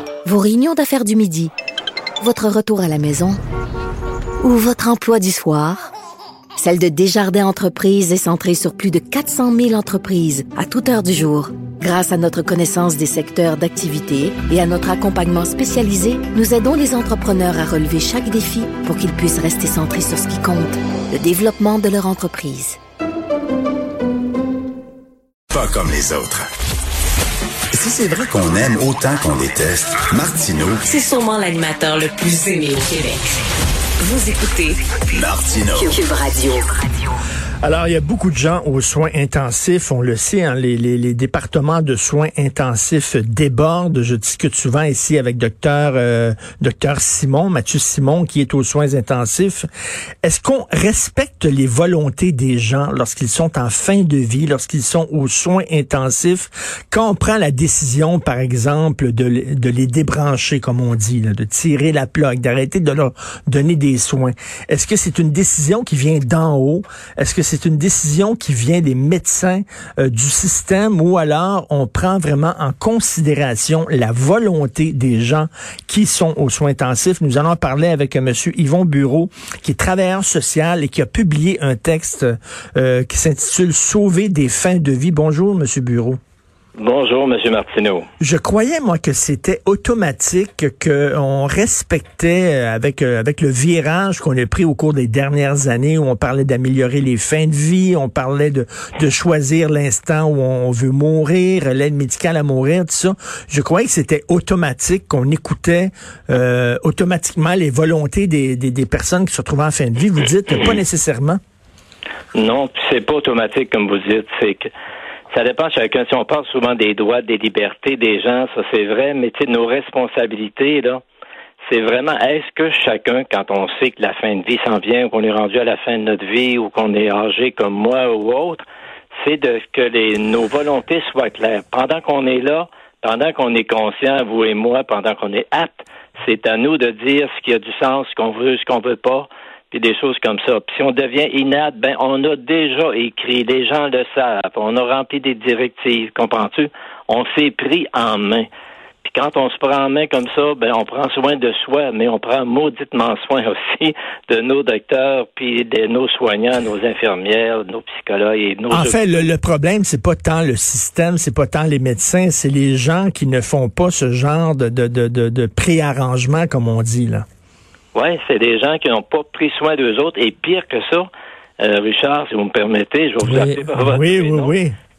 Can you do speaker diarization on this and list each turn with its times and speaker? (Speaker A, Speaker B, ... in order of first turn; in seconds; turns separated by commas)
Speaker A: 0.2-1.5, Speaker A: 2.2-3.4, Speaker A: 4.4-5.9, Speaker A: 6.6-22.8, Speaker B: 25.5-26.5, Speaker B: 27.7-30.9, Speaker C: 31.0-33.2, Speaker C: 34.1-34.7, Speaker B: 35.1-36.0, Speaker A: 35.8-36.6, Speaker D: 37.6-49.7, Speaker D: 50.2-86.2, Speaker E: 86.8-88.1, Speaker D: 88.2-111.4, Speaker E: 112.3-114.7, Speaker E: 115.3-121.0, Speaker E: 121.6-148.5, Speaker E: 149.0-159.3, Speaker D: 158.7-167.2, Speaker E: 167.9-174.6, Speaker D: 173.2-174.7